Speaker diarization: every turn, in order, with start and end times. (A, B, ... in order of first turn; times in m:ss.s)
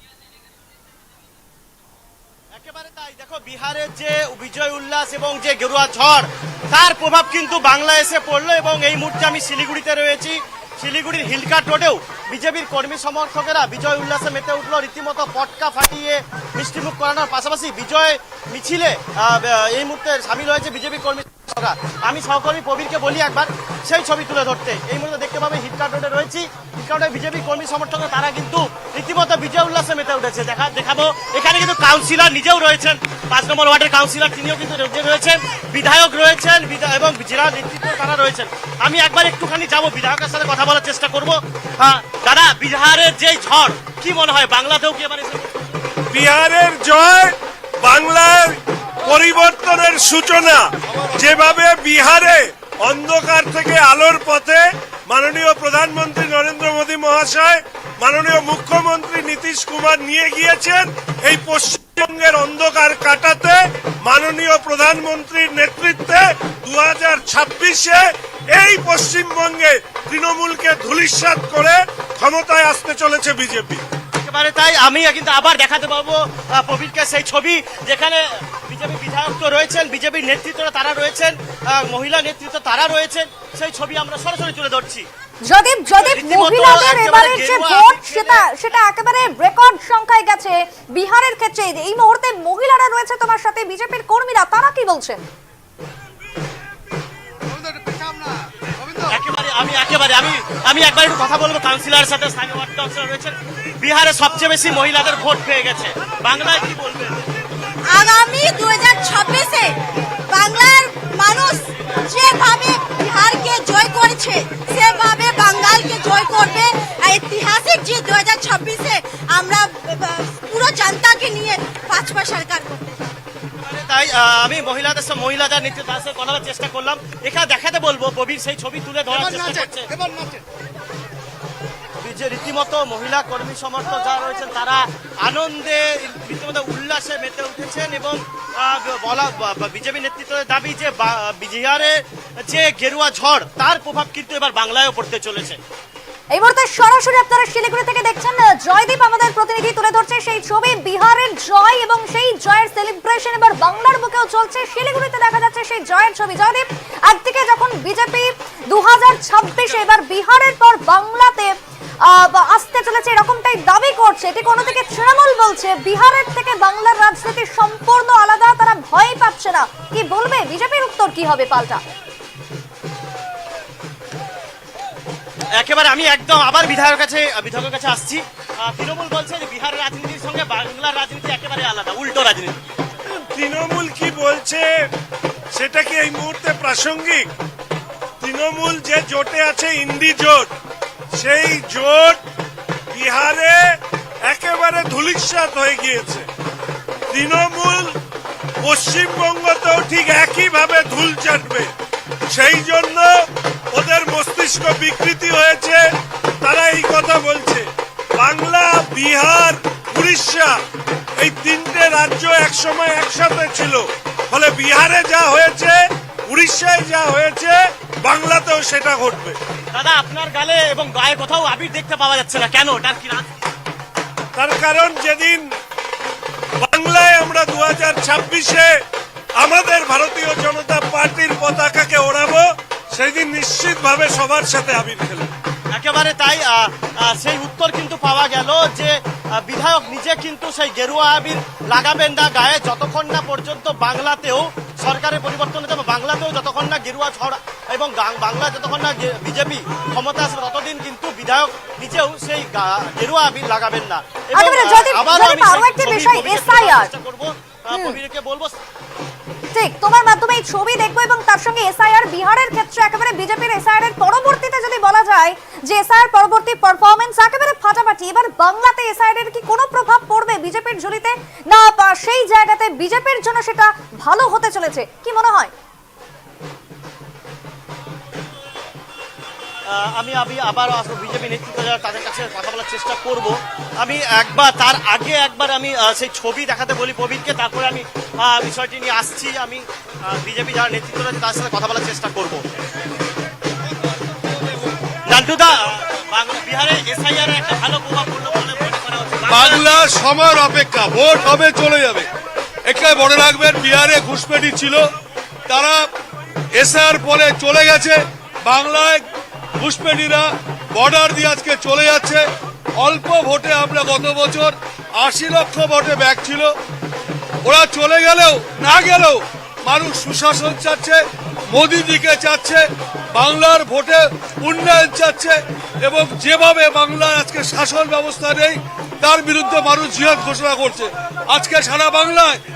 0:02.6-0:45.5 A
0:46.1-1:13.8 B
0:50.9-0:51.4 C
1:14.2-1:25.1 A
1:25.4-1:35.2 D
1:25.9-1:28.4 A
1:39.1-1:47.2 A
1:47.8-1:49.8 E
1:50.3-2:03.0 E
2:03.7-2:09.9 A
2:12.0-2:21.9 A
2:22.5-2:25.6 A
2:26.3-2:41.5 D
2:42.1-2:51.8 D
2:55.6-3:02.6 A
3:03.3-3:04.6 B
3:05.5-3:07.3 B
3:08.2-3:10.5 B
3:11.2-3:12.2 B
3:12.9-3:13.7 B
3:14.3-3:16.3 B
3:17.1-3:17.9 B
3:18.6-3:21.7 B
3:22.3-3:23.1 B
3:23.7-3:25.8 B
3:26.4-3:27.7 B
3:28.2-3:30.5 B
3:31.2-3:35.8 B
3:36.3-3:39.4 B
3:39.7-3:43.3 A
3:44.3-3:45.4 B
3:46.6-3:48.7 B
3:49.4-3:55.3 B
3:55.7-4:18.5 A
4:14.4-4:16.9 D
4:17.7-4:18.0 D
4:19.5-4:35.5 D
4:39.7-4:52.4 A
4:55.1-4:59.9 A
4:59.3-5:02.1 C
5:02.6-5:04.8 C
5:05.5-5:05.9 C
5:06.6-5:09.0 C
5:09.6-5:12.2 C
5:12.8-5:16.5 C
5:17.4-5:32.4 C